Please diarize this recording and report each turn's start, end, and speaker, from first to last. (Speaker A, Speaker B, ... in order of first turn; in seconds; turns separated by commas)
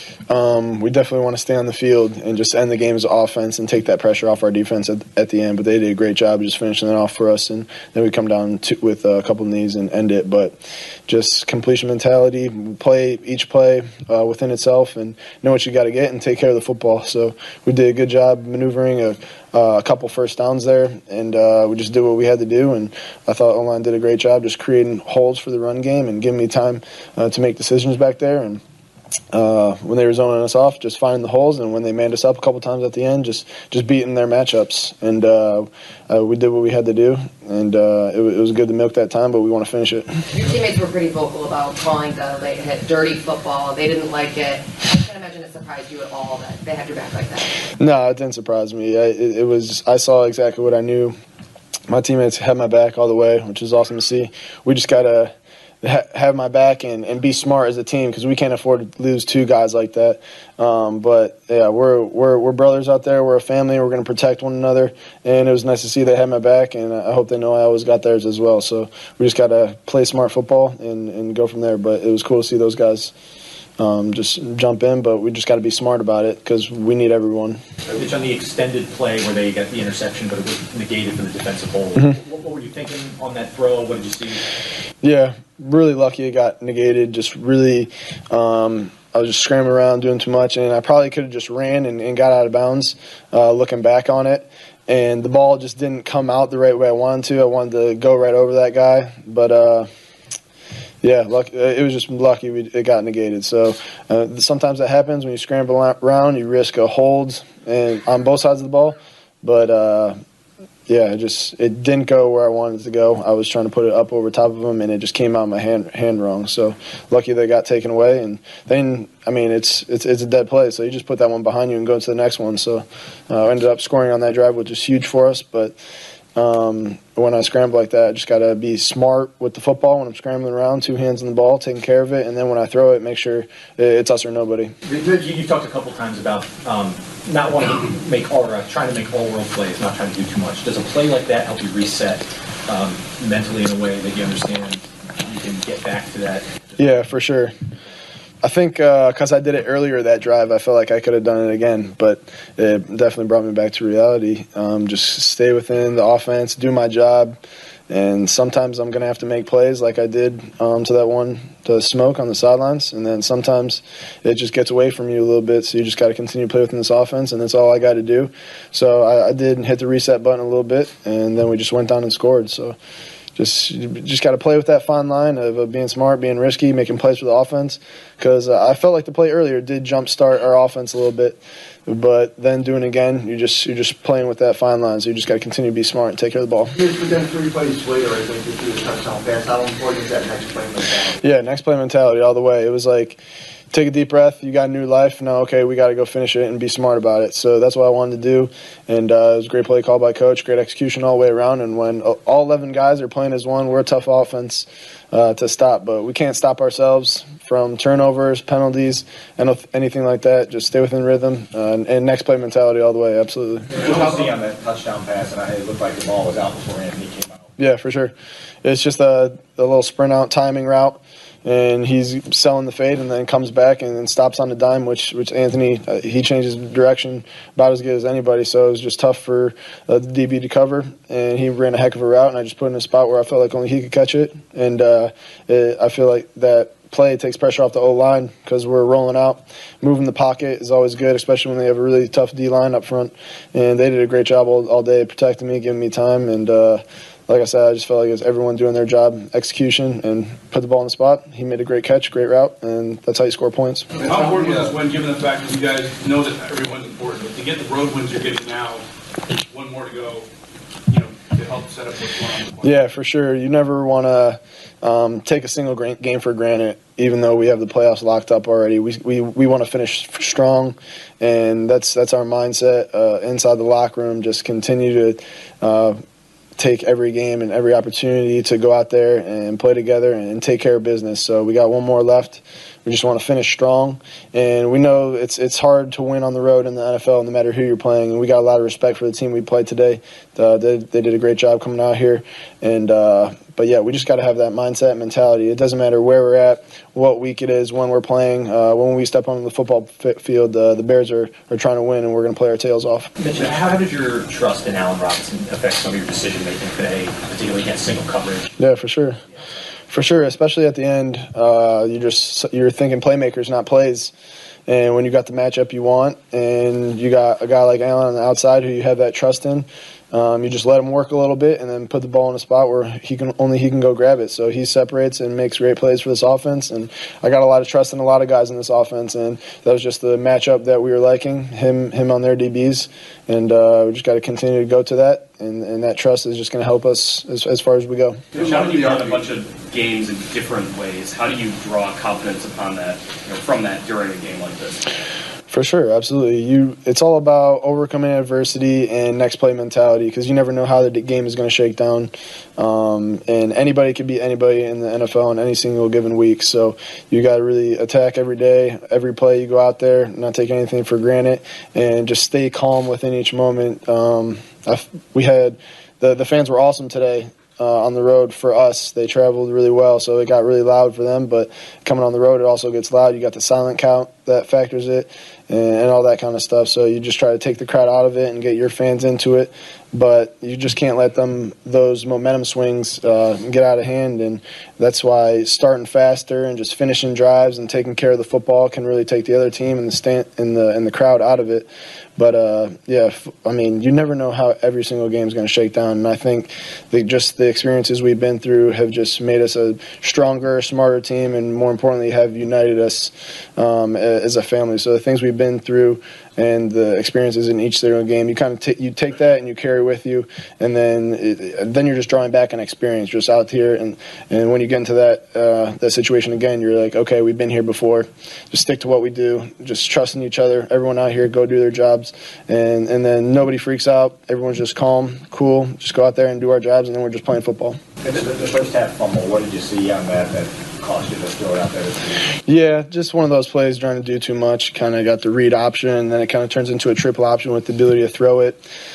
Speaker A: 0.3-28.6, Speaker A: 29.3-40.1, Speaker B: 40.3-47.5, Speaker A: 47.8-51.1, Speaker A: 51.9-73.1, Speaker A: 73.8-77.6, Speaker C: 77.9-84.4, Speaker A: 85.0-99.9, Speaker A: 101.0-110.2, Speaker A: 110.9-125.8, Speaker A: 126.3-134.7, Speaker C: 134.8-146.5, Speaker A: 146.8-147.5, Speaker A: 148.4-157.4, Speaker A: 157.9-172.8, Speaker A: 173.3-186.7, Speaker D: 186.7-191.2, Speaker A: 191.2-193.2, Speaker A: 193.7-213.7, Speaker C: 213.8-217.3, Speaker A: 217.6-253.9, Speaker E: 253.9-258.8, Speaker E: 259.5-260.3, Speaker E: 260.9-262.8, Speaker A: 262.6-276.0, Speaker A: 276.6-303.1, Speaker C: 303.2-308.5, Speaker A: 308.6-309.2, Speaker A: 309.9-314.1, Speaker A: 314.7-338.2, Speaker E: 338.3-338.6, Speaker F: 338.4-344.8, Speaker A: 345.5-427.8, Speaker C: 428.6-429.8, Speaker A: 432.5-438.6